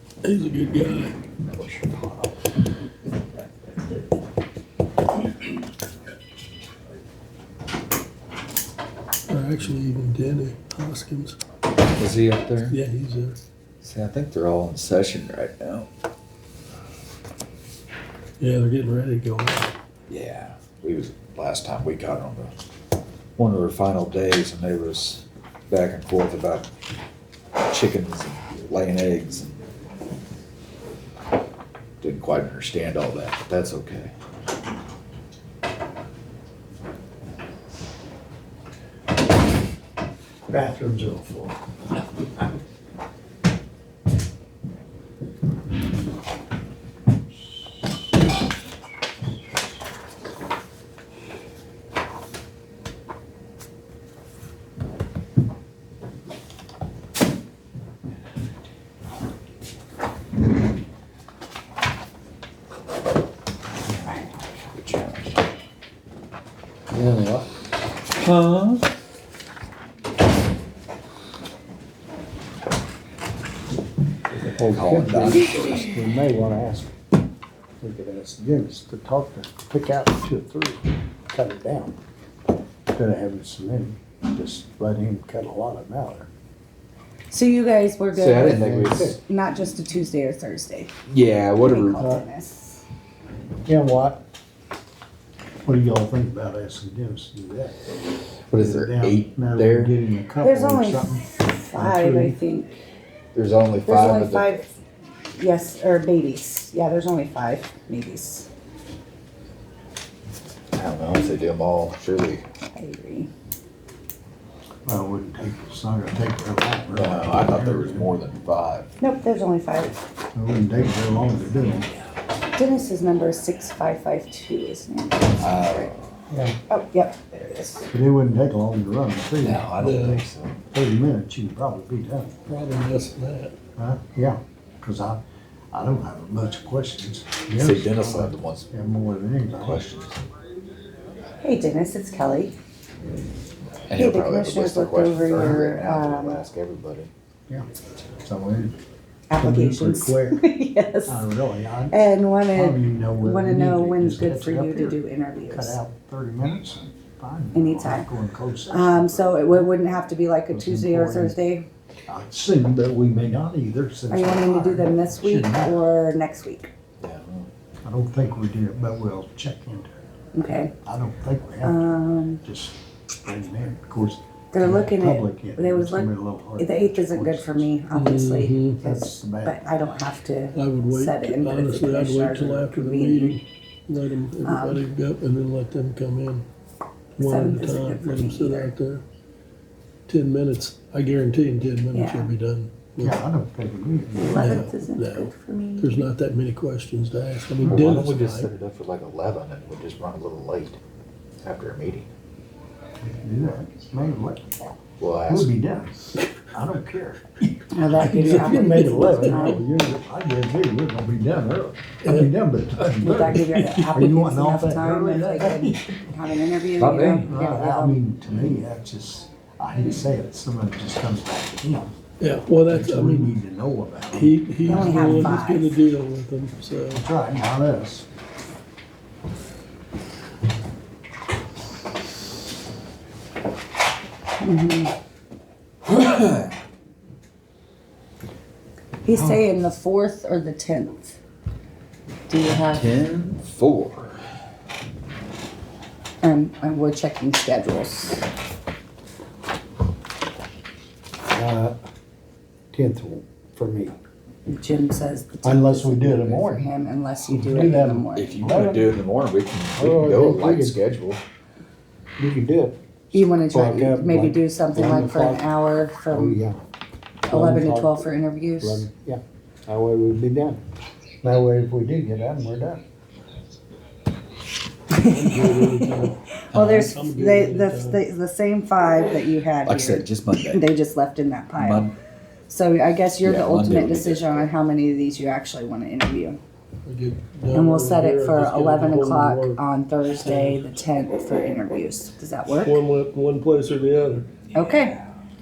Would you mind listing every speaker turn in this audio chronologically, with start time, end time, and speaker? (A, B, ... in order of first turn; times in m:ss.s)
0:00.2-0:01.2 A
0:01.4-0:02.3 B
0:09.3-0:11.4 A
0:12.0-0:12.8 B
0:12.6-0:13.4 A
0:13.8-0:15.9 B
0:18.4-0:19.7 A
0:20.1-0:22.5 B
0:23.4-0:26.7 B
0:27.6-0:29.6 B
0:32.0-0:34.1 B
0:40.5-0:41.6 C
1:03.9-1:05.4 B
1:06.9-1:07.5 C
1:08.2-1:08.8 B
1:14.3-1:16.9 C
1:14.7-1:15.9 B
1:17.8-1:21.9 C
1:22.9-1:26.3 C
1:27.3-1:30.9 D
1:28.1-1:29.2 B
1:28.5-1:29.2 C
1:31.1-1:32.1 B
1:31.6-1:32.8 D
1:32.0-1:32.3 C
1:33.7-1:34.2 C
1:35.6-1:37.8 C
1:38.5-1:39.9 B
1:38.5-1:42.4 C
1:40.4-1:42.8 D
1:43.4-1:44.5 B
1:43.8-1:44.7 D
1:45.4-1:48.5 D
1:50.7-1:52.4 B
1:52.7-1:53.3 D
1:54.9-1:58.2 C
1:56.9-1:58.9 B
1:59.0-2:00.0 D
2:00.4-2:01.9 C
2:02.6-2:05.9 D
2:05.4-2:05.9 B
2:06.3-2:06.6 C
2:06.7-2:07.9 D
2:07.9-2:12.4 C
2:09.4-2:10.6 B
2:09.8-2:10.2 A
2:12.5-2:13.5 A
2:13.8-2:19.8 C
2:17.6-2:18.7 B
2:19.6-2:20.2 B
2:21.4-2:22.6 D
2:23.9-2:27.1 B
2:24.0-2:26.4 D
2:28.2-2:28.8 C
2:29.3-2:31.3 D
2:29.4-2:30.5 C
2:31.1-2:32.0 C
2:31.9-2:35.8 D
2:32.5-2:39.8 C
2:37.5-2:38.1 D
2:38.7-2:41.6 D
2:40.5-2:41.4 C
2:42.1-2:45.9 C
2:44.1-2:46.7 D
2:47.0-2:47.5 B
2:47.8-2:49.9 C
2:50.3-2:50.7 D
2:50.8-2:57.7 C
2:51.6-2:52.4 D
2:54.5-3:03.4 D
2:57.9-2:58.8 A
2:58.8-2:59.6 C
3:00.5-3:06.4 A
3:04.4-3:04.8 D
3:07.2-3:09.0 A
3:07.2-3:08.7 D
3:10.1-3:13.2 A
3:11.9-3:12.3 D
3:13.0-3:14.5 C
3:14.2-3:16.1 D
3:14.3-3:18.5 A
3:17.6-3:17.9 C
3:17.7-3:20.8 B
3:21.4-3:22.1 B
3:23.0-3:24.6 C
3:25.0-3:25.5 B
3:25.3-3:26.0 C
3:26.5-3:27.2 C
3:27.7-3:29.6 D
3:27.8-3:29.6 A
3:28.0-3:36.0 C
3:32.0-3:34.2 A
3:33.0-3:38.0 D
3:36.8-3:37.3 B
3:37.2-3:41.9 C
3:42.2-3:43.4 A
3:42.7-3:45.4 C
3:44.1-3:47.0 A
3:44.7-3:45.8 D
3:46.9-3:48.1 C
3:54.4-3:54.9 D
3:55.9-3:56.5 B
3:59.0-4:01.2 D
3:59.1-3:59.4 B
4:02.3-4:03.0 D
4:02.5-4:04.2 B
4:06.2-4:08.2 D
4:11.3-4:11.8 C
4:12.7-4:14.0 C
4:14.5-4:18.4 D
4:15.4-4:16.7 C
4:17.3-4:19.0 C
4:18.2-4:21.2 B
4:19.8-4:20.8 C
4:22.2-4:22.8 C
4:23.1-4:26.4 D
4:23.4-4:25.5 C
4:26.1-4:26.7 C
4:27.3-4:28.1 C
4:27.3-4:28.9 D
4:28.6-4:30.6 C
4:31.2-4:32.8 C
4:34.9-4:41.9 D
4:35.0-4:38.0 A
4:36.5-4:36.9 B
4:39.7-4:40.6 B
4:41.6-4:41.9 B
4:42.5-4:46.4 D
4:43.2-4:44.5 B
4:46.8-4:49.6 A
4:47.5-4:52.8 D
4:50.2-4:50.6 A
4:52.5-4:54.3 A
4:54.5-4:55.0 D